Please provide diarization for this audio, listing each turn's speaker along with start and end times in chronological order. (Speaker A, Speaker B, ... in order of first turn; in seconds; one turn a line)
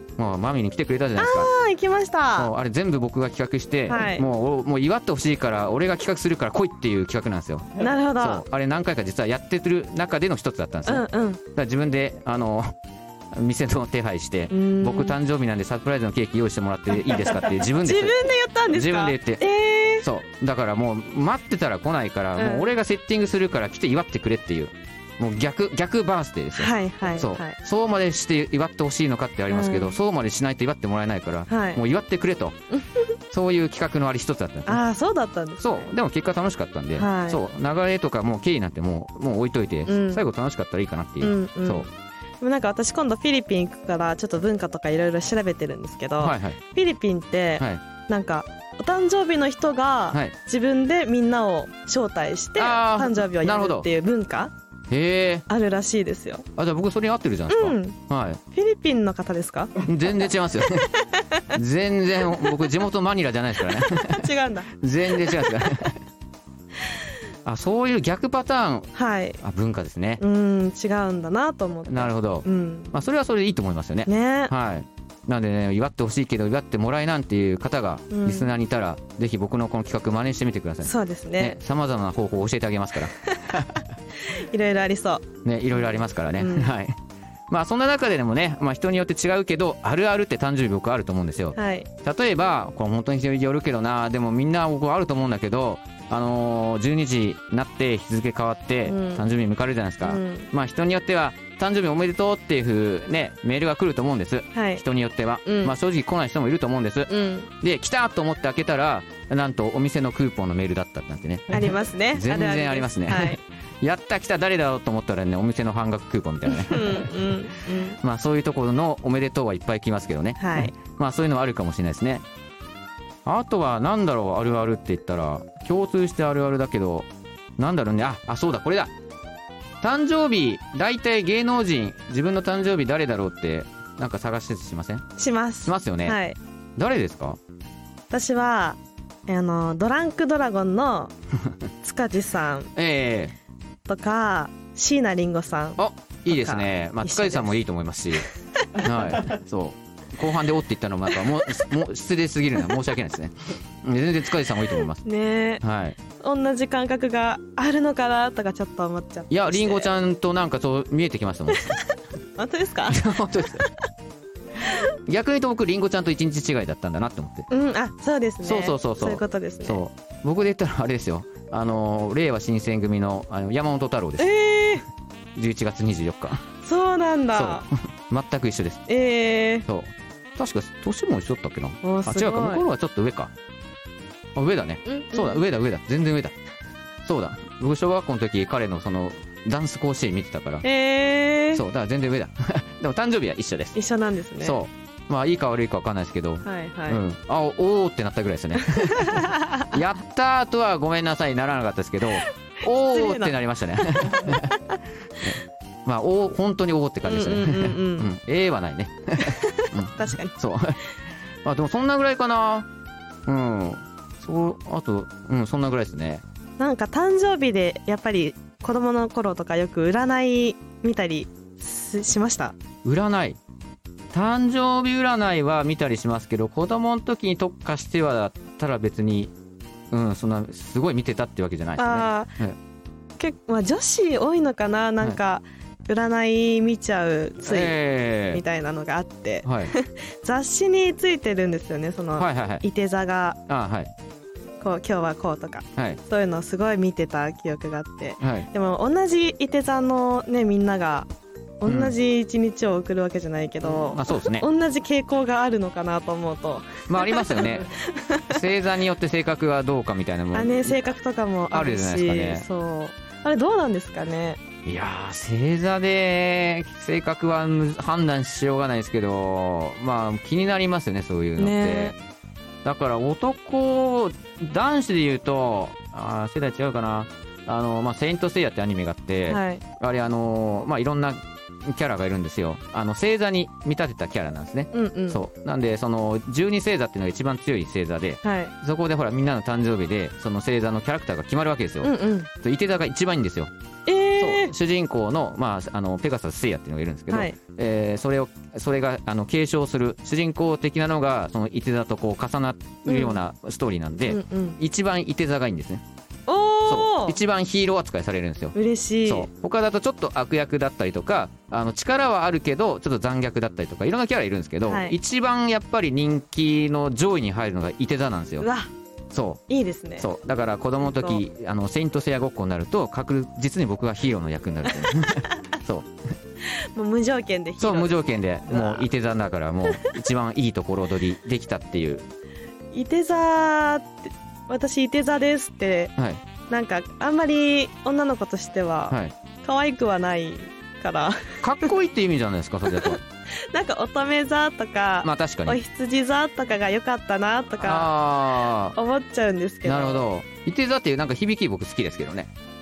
Speaker A: 0.2-1.5
Speaker B: 1.2-2.5
Speaker A: 2.4-12.7
Speaker B: 3.9-4.2
Speaker B: 7.8-8.4
Speaker B: 10.9-11.4
Speaker A: 13.3-19.4
Speaker B: 14.5-15.2
Speaker B: 17.7-20.0
Speaker A: 20.0-32.6
Speaker B: 22.4-22.7
Speaker B: 26.5-27.6
Speaker B: 29.5-30.0
Speaker B: 31.5-31.8
Speaker B: 32.7-33.0
Speaker A: 33.3-34.8
Speaker B: 34.7-35.9
Speaker A: 35.6-41.9
Speaker B: 37.0-37.4
Speaker B: 39.9-40.2
Speaker B: 41.2-41.9
Speaker B: 42.4-54.5
Speaker A: 46.2-46.6
Speaker A: 52.6-53.9
Speaker A: 54.9-55.5
Speaker B: 55.5-56.4
Speaker A: 56.6-58.4
Speaker B: 57.5-58.0
Speaker B: 58.5-59.8
Speaker A: 59.8-60.9
Speaker A: 61.5-64.3
Speaker B: 63.9-65.5
Speaker A: 64.8-66.0
Speaker A: 67.4-70.2
Speaker B: 68.9-69.4
Speaker B: 70.2-72.9
Speaker A: 71.9-83.8
Speaker B: 74.1-74.5
Speaker B: 78.1-78.5
Speaker B: 80.8-81.6
Speaker B: 84.3-86.7
Speaker A: 85.4-86.9
Speaker A: 87.5-117.1
Speaker B: 91.5-91.9
Speaker B: 98.8-99.2
Speaker B: 100.0-100.5
Speaker B: 104.5-104.8
Speaker B: 105.5-105.7
Speaker B: 107.1-107.5
Speaker B: 111.5-113.4
Speaker B: 116.7-118.0
Speaker A: 118.0-122.2
Speaker B: 120.4-120.7
Speaker A: 123.2-127.1
Speaker A: 127.6-128.9
Speaker A: 129.8-135.1
Speaker B: 135.2-136.3
Speaker A: 135.6-136.2
Speaker A: 136.8-137.4
Speaker B: 138.1-141.1
Speaker B: 141.8-142.7
Speaker A: 142.8-143.3
Speaker B: 143.9-147.5
Speaker A: 145.8-148.3
Speaker A: 148.8-155.1
Speaker B: 155.0-155.6
Speaker A: 155.6-155.9
Speaker B: 156.2-159.9
Speaker A: 159.3-161.8
Speaker B: 162.4-163.0
Speaker A: 162.9-163.7
Speaker A: 165.1-167.5
Speaker B: 167.5-169.8
Speaker A: 168.4-174.3
Speaker B: 174.2-174.8
Speaker A: 175.3-176.4
Speaker B: 176.6-177.6
Speaker A: 177.3-178.8
Speaker B: 178.9-179.6
Speaker A: 179.7-183.3
Speaker B: 181.8-182.6
Speaker A: 184.3-186.4
Speaker B: 184.8-185.4
Speaker A: 187.0-190.6
Speaker B: 190.6-191.6
Speaker A: 191.5-193.8
Speaker B: 193.7-194.6
Speaker A: 194.4-204.5
Speaker B: 196.4-197.0
Speaker B: 199.0-199.6
Speaker B: 202.7-203.3
Speaker A: 205.2-210.8
Speaker B: 207.1-208.1
Speaker B: 209.2-210.3
Speaker A: 211.4-212.7
Speaker A: 213.3-216.2
Speaker B: 216.6-222.5
Speaker A: 222.8-223.4
Speaker A: 224.1-229.3
Speaker A: 229.9-232.6
Speaker B: 231.8-232.3
Speaker B: 233.2-243.4
Speaker A: 237.4-238.4
Speaker A: 239.4-239.7
Speaker A: 242.2-242.6
Speaker A: 243.5-243.9
Speaker B: 244.6-251.1
Speaker A: 248.2-248.5
Speaker B: 251.6-258.3
Speaker A: 251.7-251.9
Speaker A: 253.7-254.5
Speaker A: 256.9-257.7
Speaker A: 258.3-260.8
Speaker B: 260.3-264.4
Speaker A: 261.5-262.4
Speaker A: 264.6-271.9
Speaker B: 271.4-271.9
Speaker A: 272.6-293.5
Speaker B: 279.3-279.6
Speaker B: 284.7-285.2
Speaker B: 288.2-288.5
Speaker B: 291.8-292.3
Speaker B: 293.9-294.5
Speaker A: 294.2-305.8
Speaker B: 297.1-297.3
Speaker B: 302.9-303.2
Speaker B: 304.1-304.6
Speaker B: 306.3-307.2
Speaker A: 306.7-318.5
Speaker B: 308.5-309.3
Speaker B: 314.6-314.9
Speaker B: 318.4-318.7
Speaker A: 319.1-319.4
Speaker B: 319.5-320.1
Speaker A: 320.0-325.9
Speaker B: 320.8-321.2
Speaker B: 326.7-328.9
Speaker A: 327.6-332.0
Speaker B: 332.7-335.9
Speaker A: 336.0-336.2
Speaker B: 336.5-341.7
Speaker A: 341.4-343.0
Speaker B: 343.5-347.9
Speaker A: 345.0-345.6
Speaker A: 347.6-348.8
Speaker B: 348.7-350.1
Speaker A: 349.6-352.3